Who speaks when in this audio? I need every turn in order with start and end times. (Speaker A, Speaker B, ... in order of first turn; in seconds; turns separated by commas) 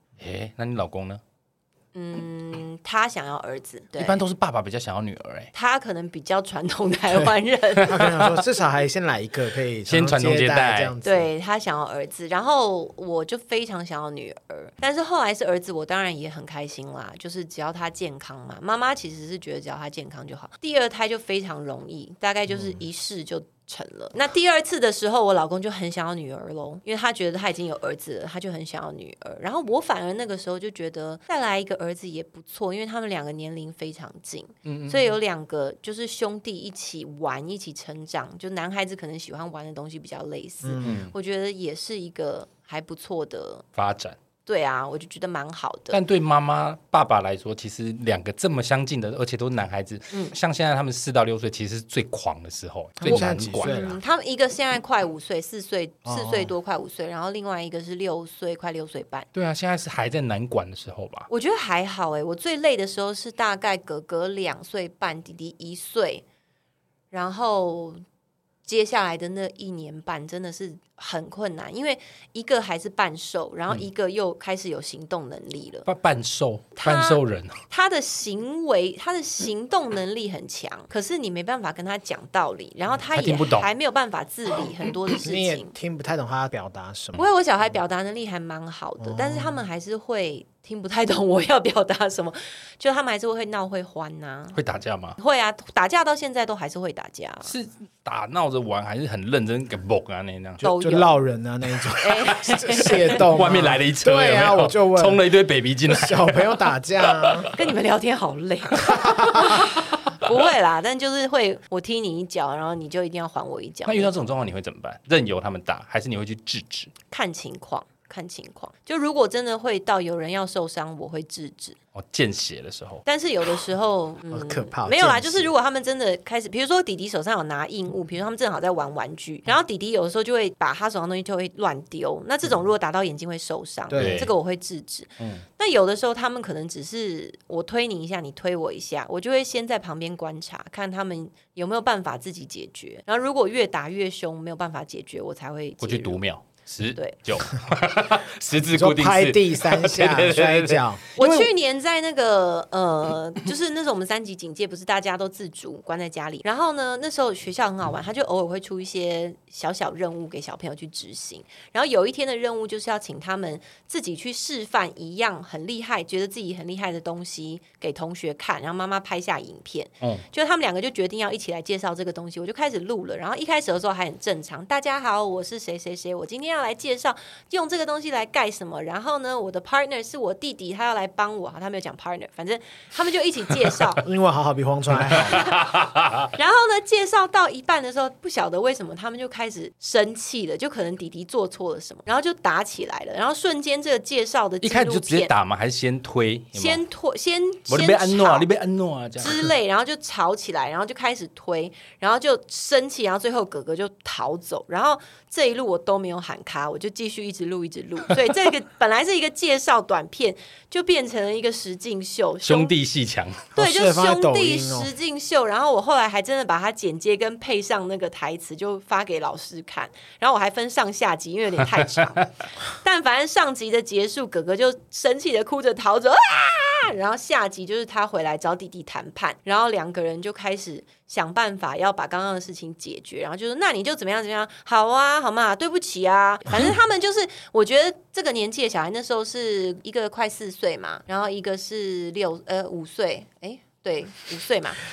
Speaker A: 0.2-1.2, Speaker B: 1.9-4.2, Speaker A: 4.0-5.5, Speaker B: 5.5-8.1, Speaker A: 7.8-8.3, Speaker C: 7.9-11.3, Speaker A: 9.9-10.9, Speaker B: 11.0-43.6, Speaker A: 34.7-35.1, Speaker C: 40.6-41.0, Speaker A: 40.8-41.1, Speaker A: 43.8-44.2, Speaker B: 44.5-46.0, Speaker A: 45.9-53.8, Speaker C: 53.0-54.0, Speaker B: 53.0-59.3, Speaker C: 56.0-56.5, Speaker A: 59.3-61.3, Speaker B: 61.3-66.2, Speaker B: 67.1-68.0, Speaker B: 68.7-75.9, Speaker A: 75.9-77.6, Speaker B: 76.8-85.7, Speaker A: 83.1-83.7, Speaker C: 85.2-87.3, Speaker B: 87.2-94.6, Speaker C: 89.0-89.6, Speaker A: 94.5-95.2, Speaker B: 95.2-97.5, Speaker A: 97.4-100.7, Speaker B: 100.6-101.1, Speaker C: 100.7-105.2, Speaker B: 102.0-103.2, Speaker A: 102.5-107.5, Speaker C: 105.9-107.5, Speaker B: 107.5-114.2, Speaker C: 108.9-109.3, Speaker A: 108.9-109.3, Speaker A: 113.8-116.9, Speaker B: 117.1-121.8, Speaker A: 122.0-123.0, Speaker B: 123.1-146.2, Speaker C: 124.3-125.5, Speaker C: 133.9-134.3, Speaker A: 134.0-134.3, Speaker A: 135.2-135.4, Speaker A: 145.8-151.5, Speaker C: 148.7-151.0, Speaker B: 151.2-184.0, Speaker C: 184.0-185.5, Speaker A: 185.2-186.3, Speaker B: 185.3-185.6, Speaker B: 186.3-195.3, Speaker A: 194.6-196.8, Speaker B: 196.6-198.5, Speaker A: 197.7-199.5, Speaker B: 199.2-212.7, Speaker A: 212.4-213.5, Speaker C: 213.6-214.9, Speaker B: 213.6-244.8